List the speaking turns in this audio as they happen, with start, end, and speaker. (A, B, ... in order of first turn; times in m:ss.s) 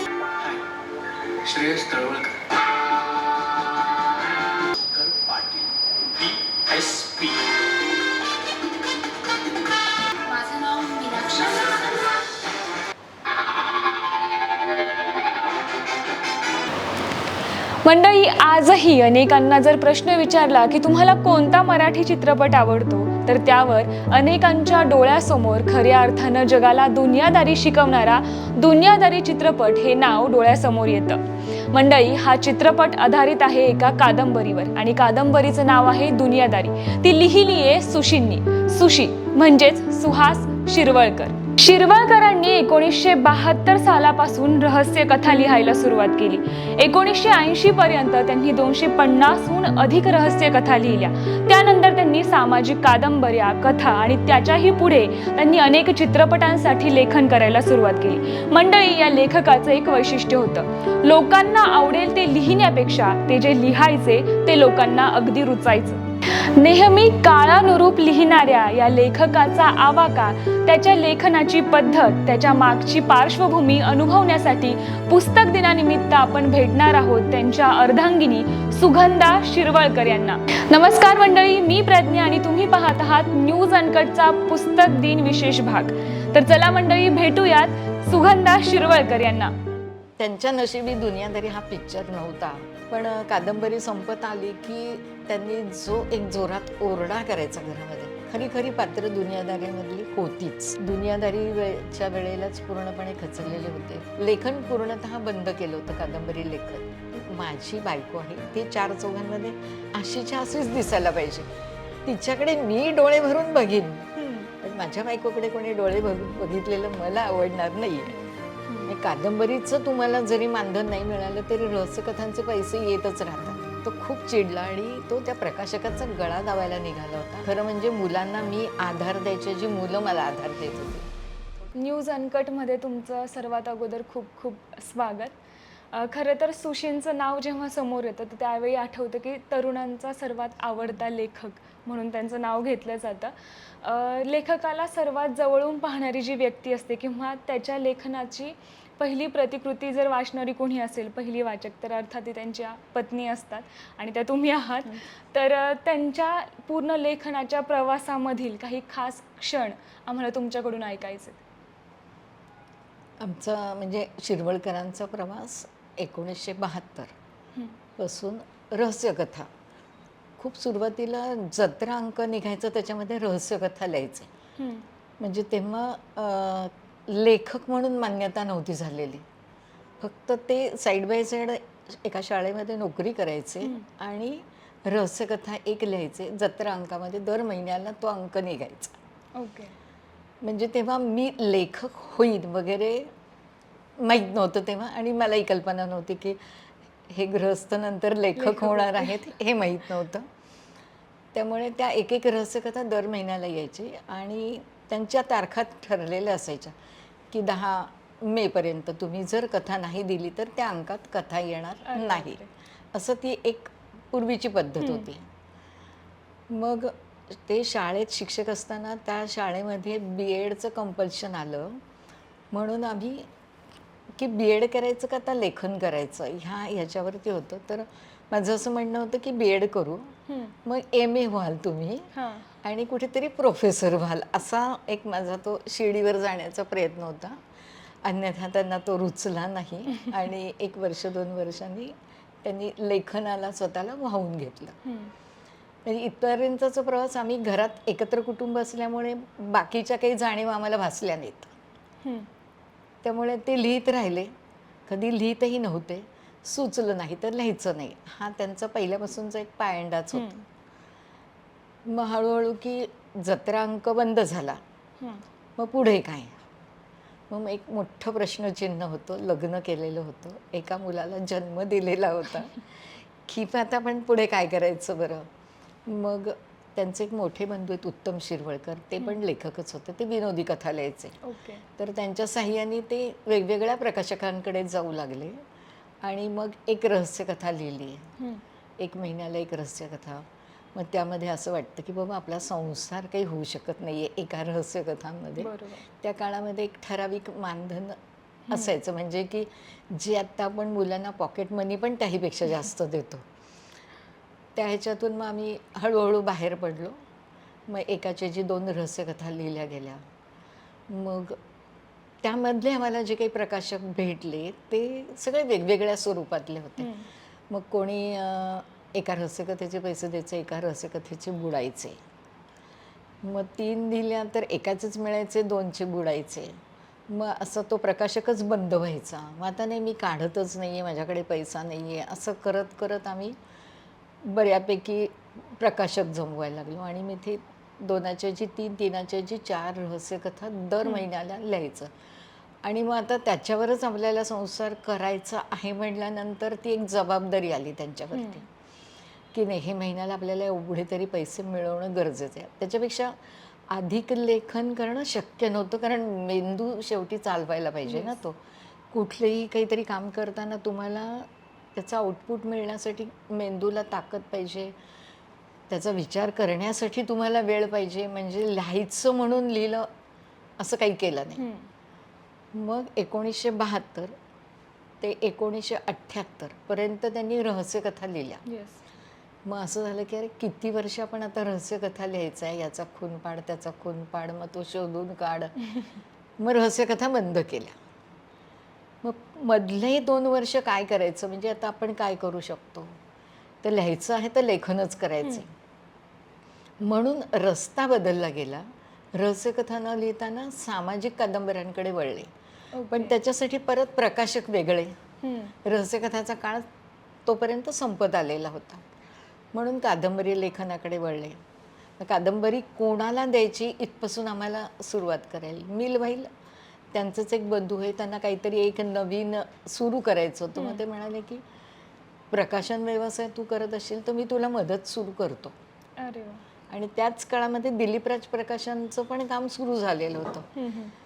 0:00.4-0:00.7 A
0:01.4-0:02.5 A
0:04.8-0:07.6 A
0:10.3-0:11.8 B
0:17.8-1:29.6 B
1:30.2-1:51.5 C
1:52.0-1:58.2 C
1:54.2-1:54.5 B
1:58.1-1:58.9 B
1:58.9-2:11.1 C
2:11.8-2:15.4 B
2:15.9-2:41.4 B
2:43.2-2:47.1 C
2:48.0-2:49.5 C
2:50.4-2:54.3 C
2:54.6-2:54.9 B
2:55.2-2:59.2 C
3:00.0-3:09.0 C
3:09.4-3:09.8 B
3:10.4-3:13.1 C
3:14.0-3:16.4 C
3:17.1-3:20.3 C
3:18.4-3:19.2 B
3:21.3-3:26.7 C
3:27.3-3:32.4 C
3:31.9-3:32.5 B
3:32.9-3:35.3 C
3:34.8-3:35.1 B
3:36.5-3:41.8 C
3:42.5-3:43.3 C
3:44.2-3:52.1 C
3:50.3-3:50.6 B
3:52.1-3:52.5 B
3:52.6-3:57.4 C
3:58.0-4:04.8 C
4:04.8-4:05.1 B
4:05.8-4:11.5 C
4:12.0-4:12.3 B
4:13.0-4:14.3 C
4:14.9-4:20.3 C
4:20.1-4:20.4 B
4:21.8-4:24.6 C
4:25.6-4:26.4 C
4:27.3-4:35.3 C
4:35.9-4:41.2 C
4:41.2-4:41.6 B
4:41.8-4:45.4 C
4:46.0-4:48.1 C
4:48.8-4:58.0 C
4:55.4-4:55.8 B
4:58.5-4:58.8 B
4:58.5-5:03.2 C
5:04.6-5:07.0 C
5:07.7-5:10.0 C
5:10.9-5:11.4 C
5:12.2-5:16.9 C
5:16.8-5:17.1 B
5:17.5-5:22.0 C
5:23.2-5:33.4 C
5:34.2-5:41.9 C
5:42.6-5:48.4 C
5:48.1-5:48.4 B
5:49.3-5:53.2 C
5:53.7-5:58.4 C
5:57.9-5:58.2 B
5:58.9-6:04.8 C
6:05.7-6:09.9 C
6:10.6-6:11.4 C
6:11.4-6:11.7 B
6:12.5-6:14.1 C
6:15.0-6:18.4 C
6:18.5-6:18.8 B
6:19.4-6:25.6 C
6:26.4-6:27.7 C
6:29.0-6:33.0 C
6:33.6-6:35.5 C
6:36.8-6:42.3 C
6:42.8-6:43.2 B
6:42.9-6:45.0 C
6:45.2-6:45.5 B
6:45.6-6:46.7 C
6:47.3-6:48.8 C
6:49.5-6:51.4 C
6:52.0-6:56.3 C
6:56.9-7:01.4 C
7:00.6-7:00.8 B
7:02.3-7:05.6 C
7:06.0-7:06.4 B
7:06.7-7:10.5 C
7:10.6-7:10.9 B